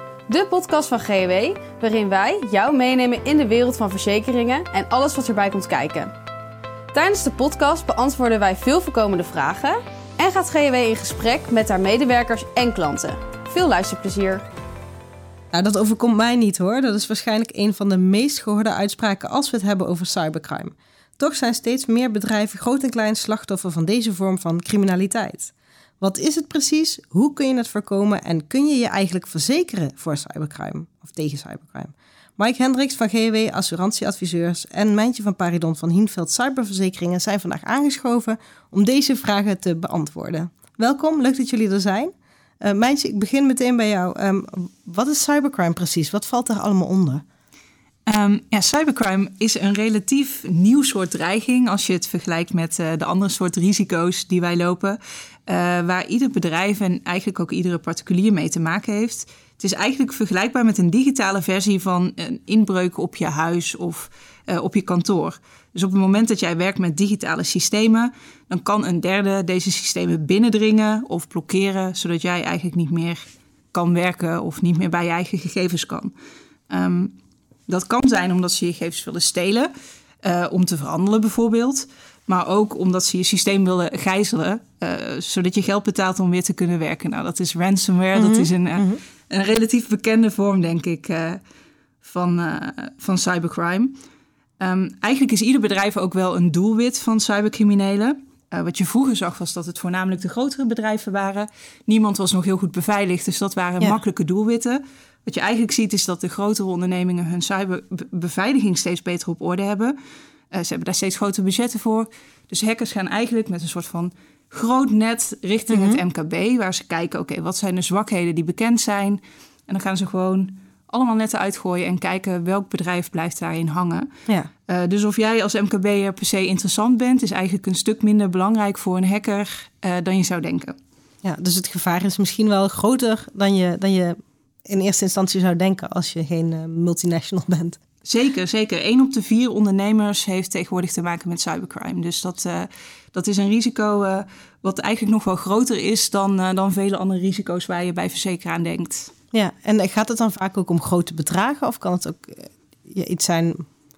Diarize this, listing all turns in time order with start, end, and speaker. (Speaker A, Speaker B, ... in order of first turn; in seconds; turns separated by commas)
Speaker A: 0.3-6.1, Speaker A: 6.9-14.4, Speaker B: 15.5-47.2, Speaker C: 48.1-76.1, Speaker C: 76.7-77.1, Speaker C: 77.7-79.7, Speaker C: 80.2-91.4, Speaker B: 88.1-89.0, Speaker C: 92.0-94.0, Speaker C: 94.6-110.0, Speaker C: 110.5-124.1, Speaker B: 115.7-116.0, Speaker C: 124.7-130.8, Speaker B: 131.2-137.8, Speaker C: 138.0-149.1, Speaker B: 149.3-153.7